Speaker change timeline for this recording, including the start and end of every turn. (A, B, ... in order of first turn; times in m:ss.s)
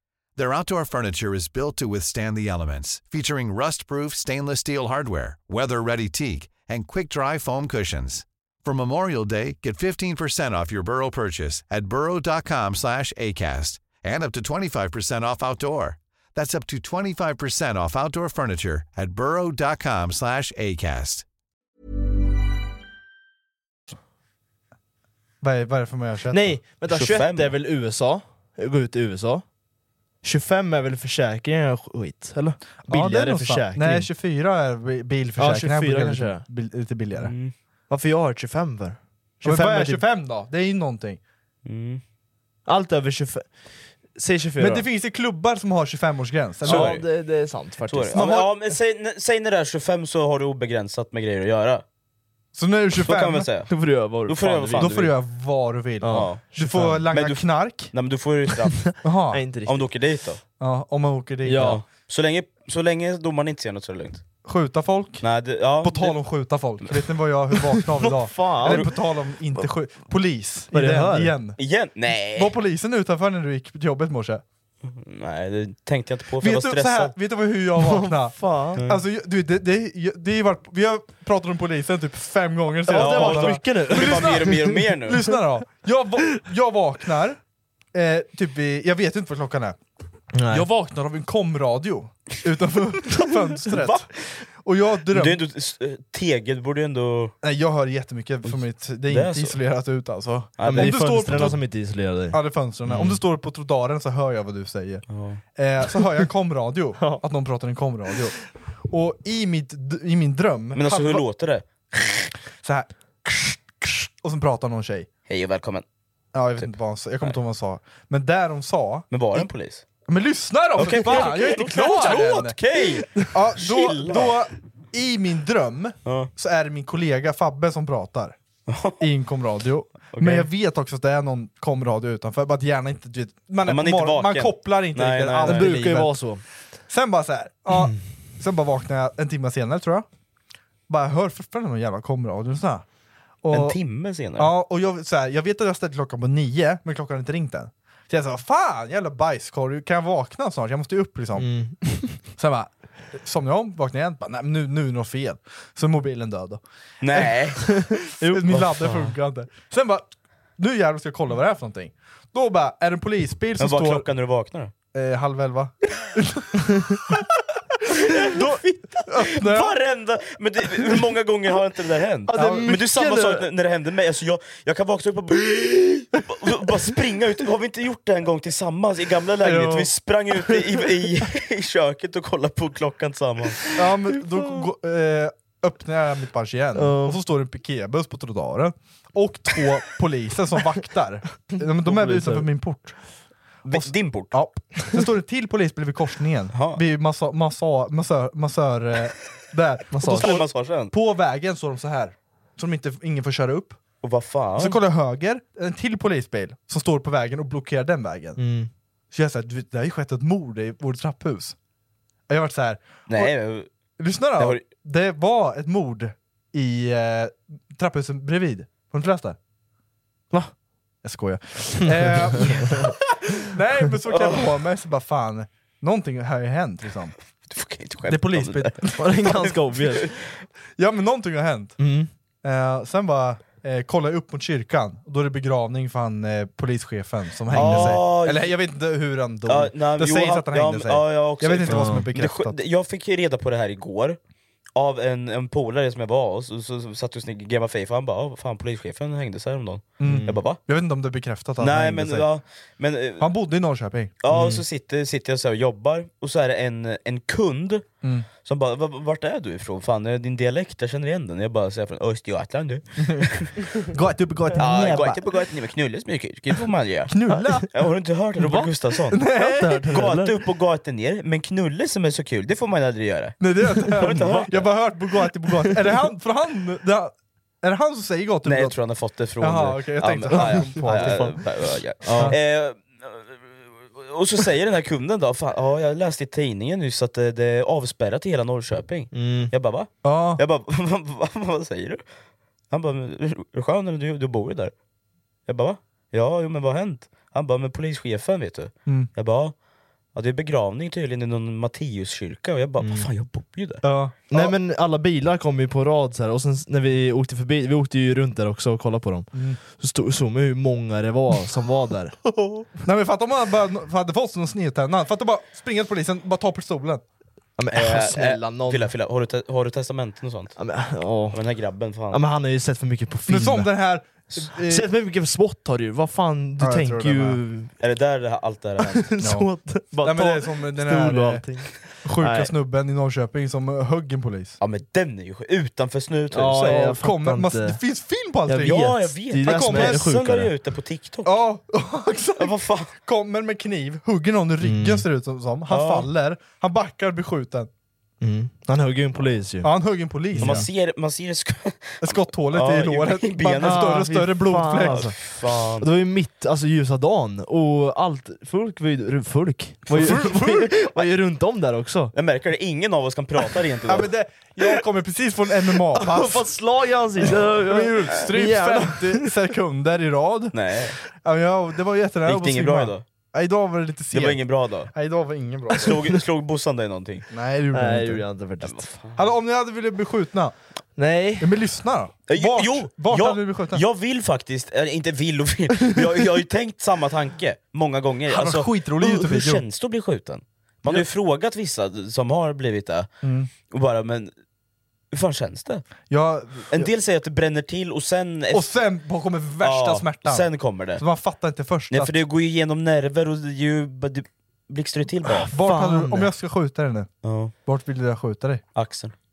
0:00.4-0:21.2 A
0:25.4-0:26.5 B
0:26.3-0:29.4 C
0:26.9-0:27.5 D
0:30.2-0:34.1 C
0:32.9-0:37.3 B
0:35.4-0:36.4 C
0:37.2-0:37.5 D
0:37.9-0:40.0 C
0:39.4-0:41.2 B
0:41.6-0:42.0 D
0:42.7-0:44.8 C
0:44.6-0:47.0 B
0:46.6-0:48.2 C
0:46.6-0:47.1 D
0:47.9-0:51.8 D
0:48.1-0:48.5 B
0:52.5-0:53.5 B
0:53.0-0:53.7 D
0:53.7-0:54.9 C
0:54.2-0:55.2 D
0:54.8-0:57.9 B
0:56.0-0:57.0 C
0:56.1-0:58.9 D
0:58.8-0:59.9 C
0:59.0-0:59.4 B
0:59.6-1:00.4 D
1:00.6-1:01.8 B
1:01.4-1:01.8 C
1:01.6-1:04.2 D
1:04.4-1:05.2 B
1:05.2-1:06.2 D
1:05.8-1:11.6 B
1:07.8-1:08.9 C
1:10.7-1:11.3 C
1:11.6-1:12.5 D
1:12.3-1:14.4 B
1:14.8-1:17.1 D
1:16.4-1:27.4 B
1:17.8-1:18.8 C
1:22.8-1:24.7 C
1:22.9-1:25.2 D
1:27.9-1:29.8 B
1:30.3-1:30.7 C
1:30.5-1:34.1 B
1:33.6-1:34.1 D
1:34.6-1:35.4 B
1:35.1-1:37.3 D
1:37.4-1:41.7 B
1:38.4-1:39.6 D
1:40.6-1:41.6 D
1:40.6-1:43.2 C
1:42.3-1:48.4 B
1:45.1-1:45.4 D
1:48.9-1:51.2 B
1:50.7-1:52.3 D
1:52.6-1:55.1 B
1:55.3-1:55.8 D
1:56.3-1:59.5 B
1:59.1-1:59.8 D
2:00.1-2:02.6 B
2:00.8-2:04.4 D
2:03.2-2:08.4 B
2:06.0-2:06.3 D
2:08.7-2:09.0 D
2:09.0-2:16.3 B
2:10.1-2:10.5 D
2:13.6-2:15.8 D
2:15.4-2:16.4 C
2:16.9-2:20.0 B
2:20.9-2:22.8 B
2:23.4-2:23.8 B
2:23.5-2:24.5 D
2:24.4-2:31.5 B
2:31.4-2:32.2 C
2:32.4-2:36.6 B
2:37.0-2:37.6 D
2:37.7-2:39.1 C
2:38.2-2:44.0 B
2:43.6-2:44.7 D
2:44.9-2:49.8 B
2:48.0-3:03.6 D
2:52.3-2:53.4 C
2:59.4-2:59.9 B
3:03.7-3:13.0 B
3:04.1-3:04.6 C
3:06.8-3:07.2 C
3:11.5-3:12.5 C
3:13.6-3:14.4 D
3:13.7-3:23.8 B
3:16.5-3:16.8 D
3:19.9-3:20.3 C
3:20.2-3:20.9 D
3:24.0-3:24.8 D
3:24.6-3:28.4 B
3:28.4-3:28.7 C
3:29.1-3:31.6 B
3:32.3-3:33.3 B
3:33.1-3:33.7 D
3:34.0-3:39.4 B
3:34.4-3:34.6 D
3:41.0-3:47.1 B
3:41.8-3:42.8 C
3:42.4-3:42.7 D
3:44.1-3:44.5 D
3:47.5-3:50.1 D
3:48.1-3:49.0 B
3:49.0-3:50.2 C
3:50.8-3:51.8 B
3:51.8-3:52.1 C
3:52.4-4:02.6 B
3:57.5-3:58.5 D
3:57.6-3:58.0 C
3:59.5-4:04.2 D
4:01.7-4:02.1 C
4:04.7-4:10.6 D
4:10.0-4:12.3 B
4:10.0-4:10.4 C
4:11.6-4:13.2 D
4:13.2-4:14.1 B
4:14.2-4:17.8 D
4:14.3-4:14.6 C
4:18.0-4:18.3 B
4:18.4-4:23.5 D
4:23.0-4:23.3 B
4:23.8-4:25.2 B
4:24.6-4:29.3 D
4:27.1-4:27.7 B
4:28.4-4:30.2 B
4:29.2-4:30.3 C
4:29.9-4:34.7 D
4:33.4-4:38.8 B
4:35.6-4:35.9 C
4:38.4-4:52.0 D
4:39.4-4:41.3 B
4:40.3-4:41.4 C
4:42.0-4:42.3 C
4:49.1-4:49.5 C
4:50.0-4:50.4 B
4:52.7-4:54.7 D
4:55.5-4:59.5 D
5:00.1-5:03.8 D
5:02.8-5:03.1 C
5:03.8-5:04.5 B
5:04.3-5:12.2 C
5:09.3-5:09.6 B
5:12.4-5:17.0 B
5:17.6-5:18.9 C
5:17.7-5:20.6 D
5:20.6-5:21.4 C
5:21.3-5:22.2 D
5:22.1-5:23.7 C
5:23.3-5:24.9 B
5:24.5-5:27.7 C
5:26.6-5:27.4 B
5:27.8-5:29.1 D
5:29.0-5:32.5 C
5:29.2-5:29.5 B
5:30.0-5:31.4 B
5:32.0-5:34.6 B
5:34.6-5:36.9 D
5:36.3-5:37.8 C
5:36.6-5:40.1 B
5:38.5-5:40.5 C
5:38.6-5:41.3 D
5:41.2-5:47.7 B
5:42.4-5:42.9 D
5:44.6-5:45.0 C
5:45.7-5:46.1 D
5:48.2-5:49.7 C
5:49.6-5:50.7 B
5:50.3-5:50.7 C
5:50.4-5:54.1 D
5:52.0-5:55.0 B
5:53.6-5:55.3 C
5:54.8-5:55.9 D
5:55.8-6:02.1 C
5:59.9-6:00.7 B
6:02.1-6:04.1 D
6:03.9-6:06.5 B
6:05.9-6:09.4 C
6:07.2-6:10.5 B
6:10.5-6:11.0 D
6:11.2-6:16.0 B
6:12.2-6:13.0 D
6:14.1-6:14.9 D
6:15.8-6:17.2 D
6:17.3-6:18.2 B
6:17.7-6:19.0 C
6:18.6-6:19.2 D
6:19.2-6:20.5 B
6:21.0-6:21.5 C
6:21.4-6:23.8 B
6:22.3-6:33.1 D
6:28.3-6:29.6 B
6:33.2-6:33.5 B
6:33.7-6:34.3 D
6:35.1-6:35.8 D
6:36.1-6:36.8 B
6:36.7-6:38.7 D
6:38.5-6:42.1 B
6:39.6-6:41.0 D
6:41.9-6:45.5 D
6:45.3-6:46.3 C
6:45.5-6:47.1 B
6:47.2-6:47.5 D
6:47.6-6:48.6 B
6:48.7-6:49.1 D